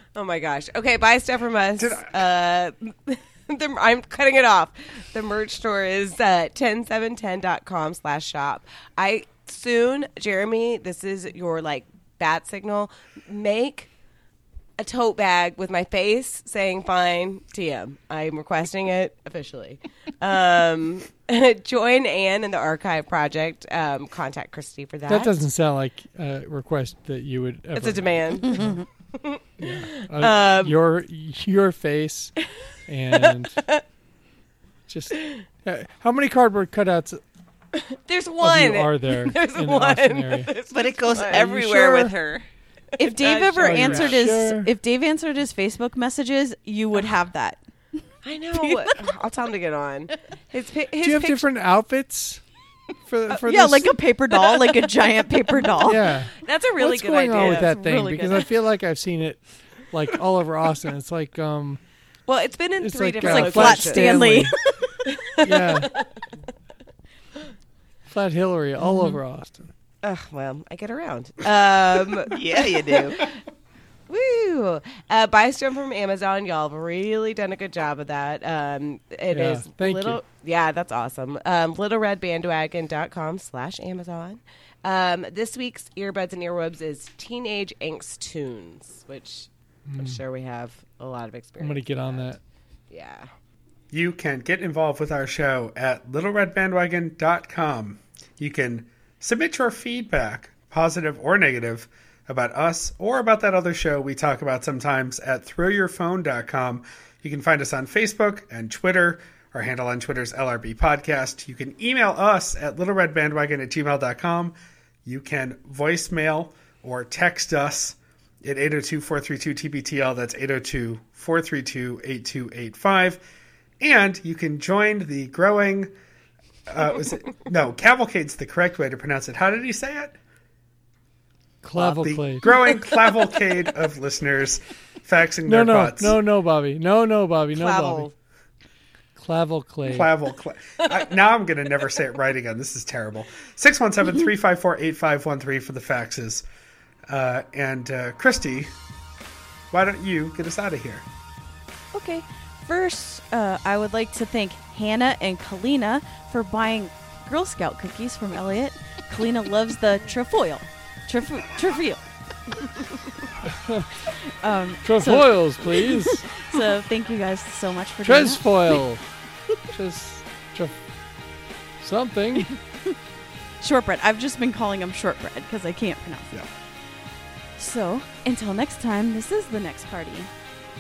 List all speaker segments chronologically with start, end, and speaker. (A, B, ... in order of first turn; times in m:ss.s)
0:00.1-0:13.9 A
0:01.8-0:02.1 B
0:14.8-0:25.3 A
0:25.1-0:28.8 C
0:27.8-0:30.8 A
0:29.6-0:32.3 C
0:32.9-0:33.6 C
0:33.3-0:33.8 A
0:34.9-0:37.2 C
0:37.8-0:41.5 A
0:38.4-0:40.5 C
0:40.7-0:42.5 D
0:41.5-0:42.1 C
0:43.0-0:44.2 A
0:43.0-0:47.6 E
0:43.6-0:44.7 C
0:48.2-0:51.5 A
0:48.6-0:49.0 E
0:51.0-0:52.4 C
0:53.1-0:54.0 C
0:53.4-0:56.0 E
0:55.8-1:01.8 C
0:56.3-0:57.8 A
0:57.3-0:58.5 E
1:02.3-1:04.4 A
1:02.8-1:04.6 C
1:03.2-1:04.6 E
1:05.0-1:05.9 A
1:05.4-1:05.9 C
1:08.1-1:09.7 C
1:10.0-1:13.3 A
1:12.3-1:13.3 D
1:14.1-1:32.3 A
1:19.3-1:20.2 C
1:29.9-1:30.2 C
1:31.6-1:32.4 C
1:32.9-1:33.3 A
1:33.9-2:03.2 B
2:03.8-2:05.9 B
2:06.7-2:10.2 B
2:11.6-2:12.6 C
2:11.8-2:16.2 B
2:15.5-2:18.1 C
2:17.5-2:18.1 A
2:19.2-2:20.1 C
2:19.8-2:26.4 B
2:27.1-2:28.7 B
2:29.7-2:31.0 B
2:31.9-2:42.0 E
2:43.4-2:44.0 C
2:44.3-2:48.4 E
2:44.8-2:46.3 C
2:48.0-2:49.0 C
2:49.7-2:50.8 C
2:51.8-2:52.5 C
2:53.6-2:56.4 E
2:57.6-3:00.3 E